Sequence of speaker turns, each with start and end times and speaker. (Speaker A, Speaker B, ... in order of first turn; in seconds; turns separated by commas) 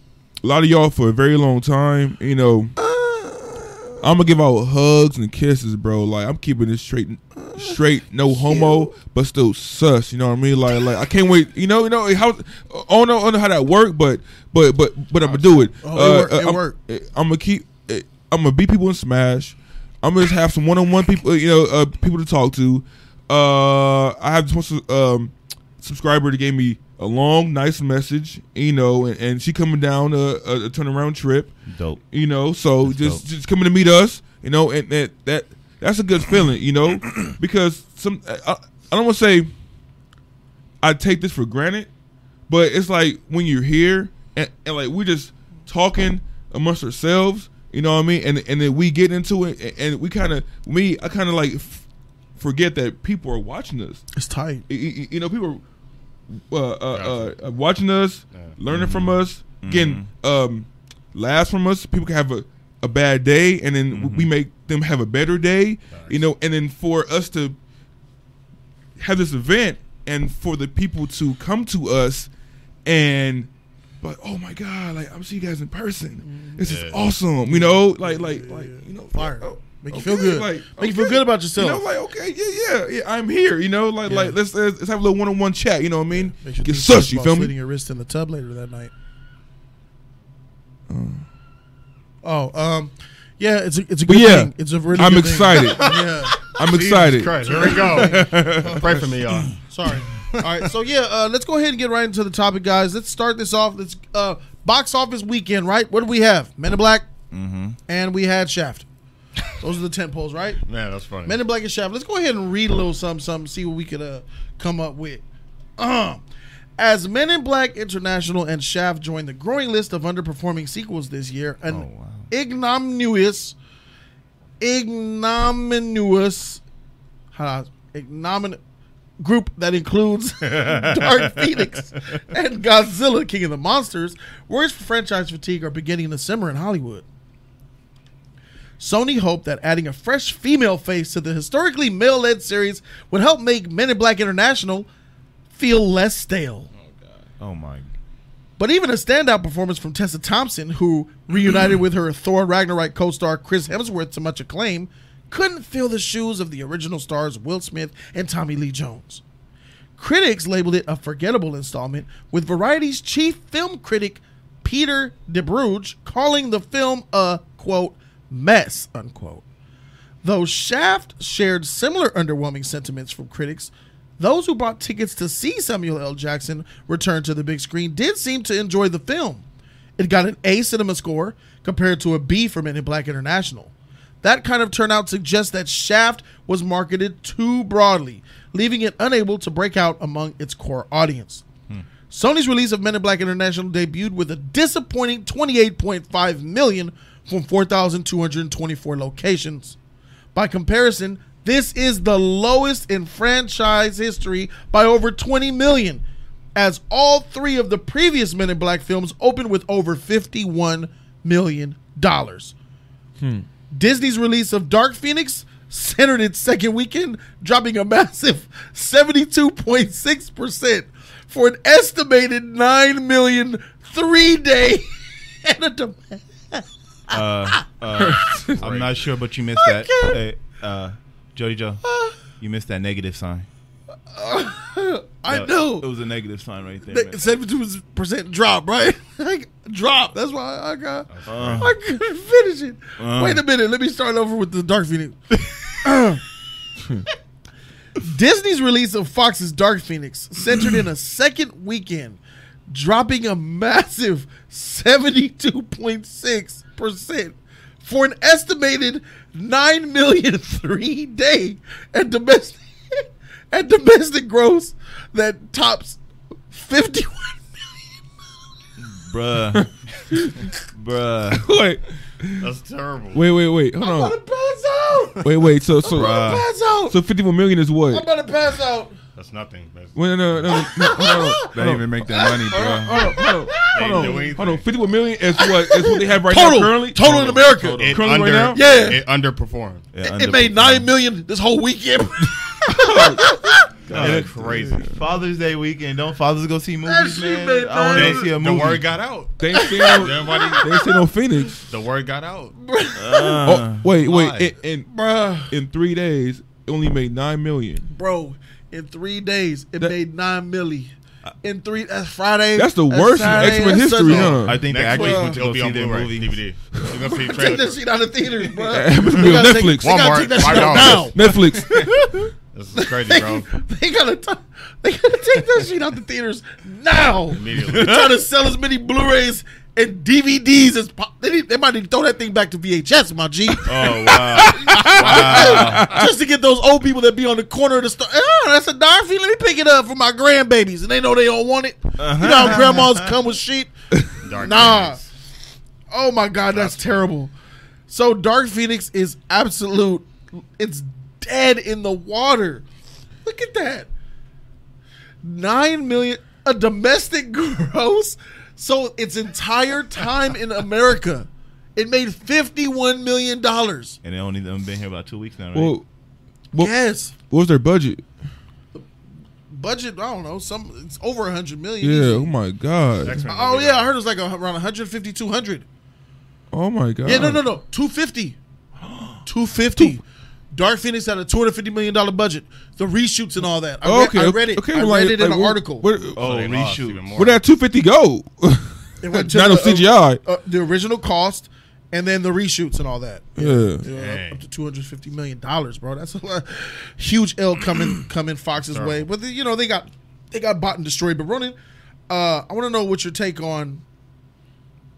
Speaker A: 0.4-2.8, Speaker B: 2.8-4.0, Speaker A: 4.0-39.5, Speaker B: 7.4-8.9, Speaker B: 15.2-16.8, Speaker C: 31.7-32.0, Speaker C: 32.8-33.2, Speaker A: 40.8-41.9, Speaker A: 42.5-51.9, Speaker A: 52.4-54.0, Speaker B: 54.1-54.6, Speaker A: 54.7-55.6, Speaker A: 56.3-67.6, Speaker D: 56.9-57.3, Speaker D: 58.3-58.6, Speaker C: 58.7-60.1, Speaker C: 63.9-64.3, Speaker D: 65.9-66.2, Speaker A: 69.0-72.3, Speaker A: 72.8-73.5, Speaker A: 74.0-87.5, Speaker B: 76.2-76.7, Speaker D: 76.6-77.0, Speaker B: 77.5-81.8, Speaker B: 84.0-84.4, Speaker B: 86.1-88.9, Speaker A: 90.9-91.2, Speaker B: 92.2-96.5, Speaker A: 94.1-96.0, Speaker D: 95.6-99.6, Speaker A: 96.5-99.1, Speaker B: 97.5-107.1, Speaker C: 107.3-107.8, Speaker B: 107.9-108.9, Speaker B: 109.5-110.6, Speaker D: 110.7-111.4, Speaker B: 111.3-115.2, Speaker B: 115.8-116.2, Speaker B: 116.8-123.5, Speaker C: 121.7-122.3, Speaker B: 124.6-126.6, Speaker B: 127.3-128.6, Speaker B: 129.2-137.1, Speaker C: 130.5-131.5, Speaker B: 138.8-144.9, Speaker B: 145.5-146.7, Speaker D: 146.7-147.3, Speaker C: 147.4-147.9, Speaker B: 148.6-159.2, Speaker B: 160.0-169.4, Speaker B: 170.2-179.4, Speaker B: 180.0-191.4, Speaker B: 192.1-199.8, Speaker B: 200.3-206.0, Speaker B: 206.6-212.6, Speaker A: 213.2-213.5, Speaker B: 213.7-226.7, Speaker C: 227.1-231.8, Speaker A: 228.0-228.6, Speaker D: 228.6-229.1, Speaker B: 229.6-230.2, Speaker B: 231.8-232.2, Speaker C: 232.4-233.5, Speaker B: 234.1-235.9, Speaker C: 235.3-237.2, Speaker B: 236.9-245.2, Speaker D: 241.1-241.7, Speaker C: 241.3-241.7, Speaker C: 243.0-243.4, Speaker B: 245.8-246.2, Speaker B: 248.0-266.0, Speaker B: 266.5-267.5, Speaker C: 268.8-269.7, Speaker A: 269.5-270.5, Speaker C: 270.7-271.5, Speaker A: 271.4-272.5, Speaker D: 272.4-273.2, Speaker A: 273.1-274.2, Speaker B: 273.8-275.3, Speaker A: 275.2-278.1, Speaker B: 275.8-277.0, Speaker C: 275.9-276.5, Speaker B: 277.9-279.0, Speaker D: 279.1-280.7, Speaker A: 279.9-288.6, Speaker B: 280.5-281.5, Speaker C: 281.5-283.1, Speaker B: 282.1-284.3, Speaker D: 283.7-284.7, Speaker B: 285.4-288.0, Speaker C: 287.0-288.0, Speaker D: 287.8-289.9, Speaker B: 288.5-289.0, Speaker C: 289.9-290.9, Speaker B: 290.0-293.6, Speaker A: 292.7-295.0, Speaker D: 293.9-294.9, Speaker C: 293.9-298.9, Speaker B: 296.9-298.3, Speaker D: 297.9-300.7, Speaker A: 299.4-301.7, Speaker B: 299.5-300.9, Speaker D: 301.6-302.5, Speaker B: 302.6-303.5, Speaker C: 303.0-303.9, Speaker A: 303.4-304.9, Speaker D: 304.0-304.5, Speaker B: 304.9-305.5, Speaker A: 305.5-307.9, Speaker B: 307.9-315.4, Speaker A: 312.6-314.6, Speaker D: 314.1-317.8, Speaker C: 314.4-316.4, Speaker B: 317.2-321.2, Speaker A: 318.6-322.1, Speaker D: 319.8-321.9, Speaker B: 321.7-343.7, Speaker D: 322.5-323.5, Speaker D: 327.3-328.0, Speaker C: 327.7-328.1, Speaker C: 333.6-336.0, Speaker A: 334.5-335.1, Speaker D: 335.3-335.7, Speaker C: 342.0-343.1, Speaker D: 344.2-345.1, Speaker B: 344.4-345.0, Speaker B: 345.9-347.3, Speaker D: 346.5-347.1, Speaker B: 347.9-352.6, Speaker B: 353.2-353.9, Speaker B: 355.2-364.0, Speaker C: 364.0-365.8, Speaker A: 365.5-365.9, Speaker B: 366.5-367.1, Speaker A: 366.5-368.1, Speaker B: 369.5-372.3, Speaker A: 371.8-373.3, Speaker D: 373.0-373.9, Speaker B: 373.3-375.6, Speaker A: 376.5-377.4, Speaker B: 377.1-378.4, Speaker C: 378.8-379.2, Speaker B: 379.2-380.0, Speaker B: 380.5-385.9, Speaker A: 383.8-386.2, Speaker C: 386.1-387.2, Speaker D: 386.2-387.4, Speaker A: 387.2-390.2, Speaker B: 389.0-401.6, Speaker A: 393.4-393.9, Speaker D: 393.9-394.4, Speaker D: 398.6-399.0, Speaker B: 402.1-403.8